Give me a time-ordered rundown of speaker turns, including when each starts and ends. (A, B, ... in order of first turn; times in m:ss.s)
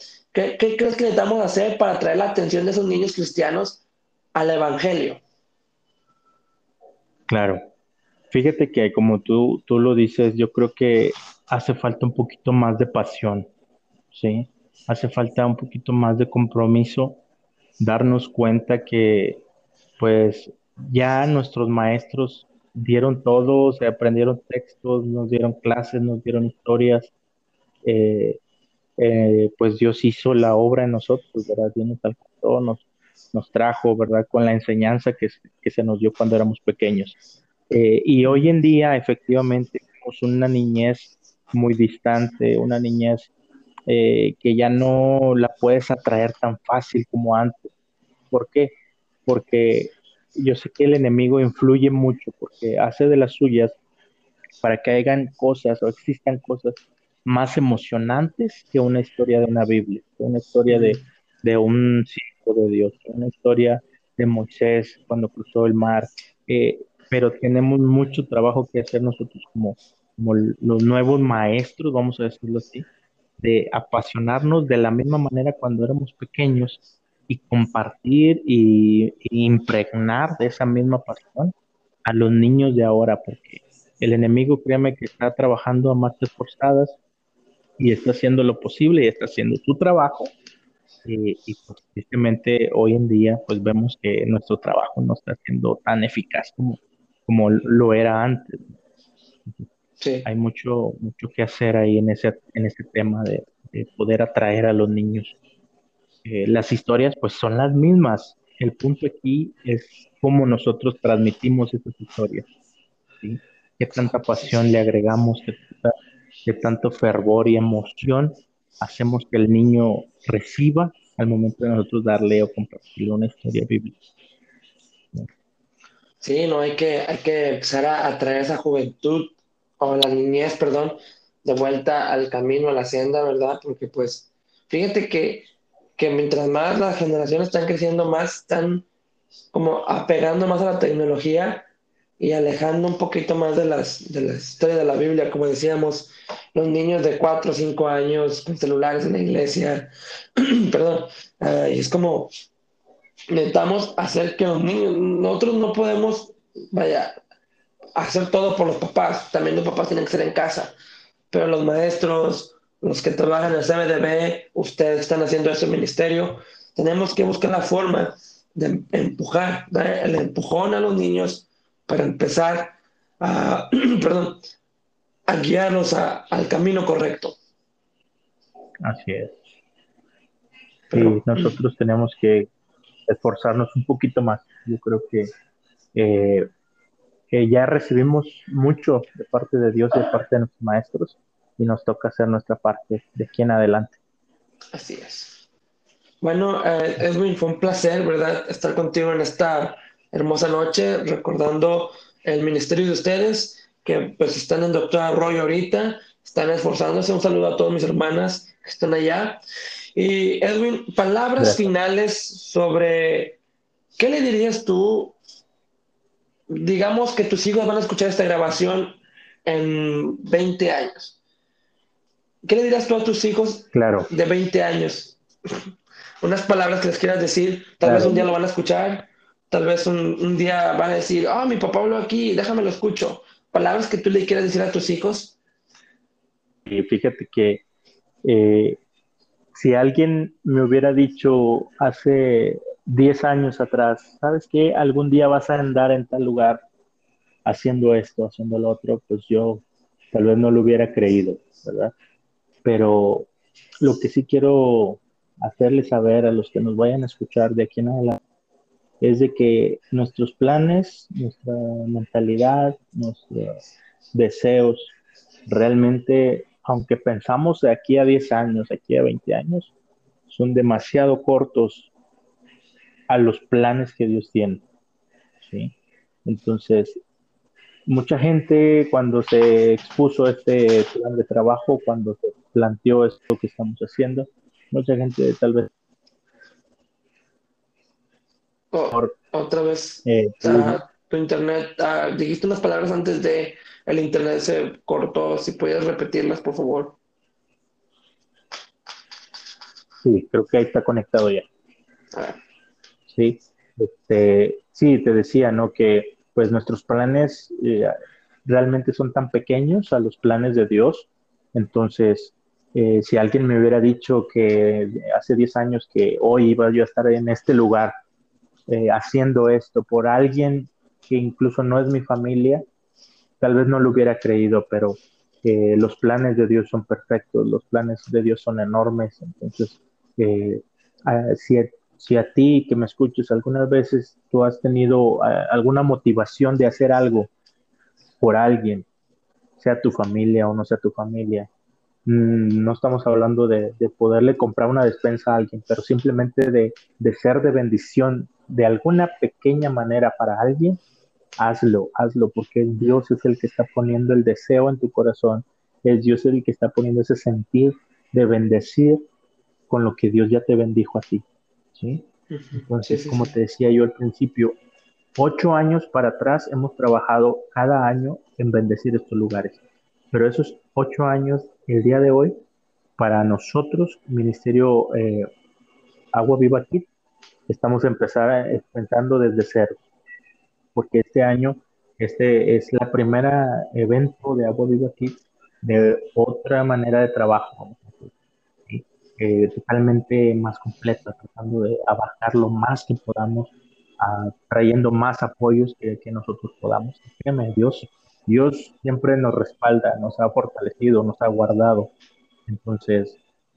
0:00.3-0:03.8 A
0:04.3-0:05.2 A
0:07.3-0:07.6 B
0:08.3-0:13.5 B
0:14.1-0:17.2 B
0:17.8-0:19.4 B
0:20.0-0:27.1 B
0:27.8-0:28.4 B
0:29.0-0:37.2 B
0:37.7-0:43.3 B
0:43.9-0:47.7 B
0:48.3-0:53.8 B
0:54.6-1:12.9 B
1:00.7-1:01.0 A
1:13.4-1:21.5 B
1:22.0-1:27.0 B
1:27.8-1:30.3 B
1:31.0-1:38.7 B
1:40.0-1:40.3 A
1:40.2-1:45.4 B
1:46.2-1:52.5 B
1:53.2-2:04.0 B
2:06.2-2:18.8 A
2:19.5-2:21.6 A
2:22.2-2:32.3 A
2:33.3-2:37.2 A
2:38.0-2:40.7 A
2:41.3-2:54.4 A
2:55.3-2:57.4 A
2:58.8-2:59.4 B
3:00.9-3:01.6 A
3:00.9-3:02.5 B
3:03.1-3:05.3 B
3:05.9-3:06.5 B
3:07.3-3:14.0 B
3:14.7-3:15.4 A
3:16.2-3:29.4 A
3:30.0-3:33.4 A
3:31.4-3:31.6 B
3:34.0-3:35.2 A
3:36.5-3:41.2 A
3:42.4-3:45.7 A
3:43.7-3:44.1 B
3:46.2-3:55.4 A
3:47.8-3:48.3 B
3:56.6-3:57.6 B
3:58.2-3:58.8 B
3:59.5-4:06.6 B
4:07.4-4:11.9 B
4:12.6-4:13.3 B
4:13.8-4:18.2 B
4:19.0-4:23.6 B
4:24.1-4:24.9 B
4:25.5-4:29.7 B
4:30.3-4:31.9 B
4:33.1-4:34.6 B
4:35.4-4:35.7 B
4:36.2-4:37.0 B
4:37.8-4:45.7 B
4:48.7-4:57.0 A
4:50.0-4:50.8 B
5:00.0-5:01.5 B
5:02.1-5:02.4 A
5:03.1-5:07.9 B
5:08.4-5:17.9 B
5:18.7-5:22.6 B
5:23.4-5:37.3 B
5:38.2-5:38.9 B
5:39.6-5:41.5 B
5:42.0-5:50.8 B
5:51.4-5:59.0 B
5:59.7-6:04.6 B
6:02.3-6:03.3 A
6:05.2-6:09.6 B
6:10.1-6:12.4 B
6:13.0-6:15.3 B
6:16.1-6:16.8 B
6:17.5-6:19.8 B
6:20.7-6:28.1 B
6:28.7-6:41.9 B
6:42.5-6:43.2 B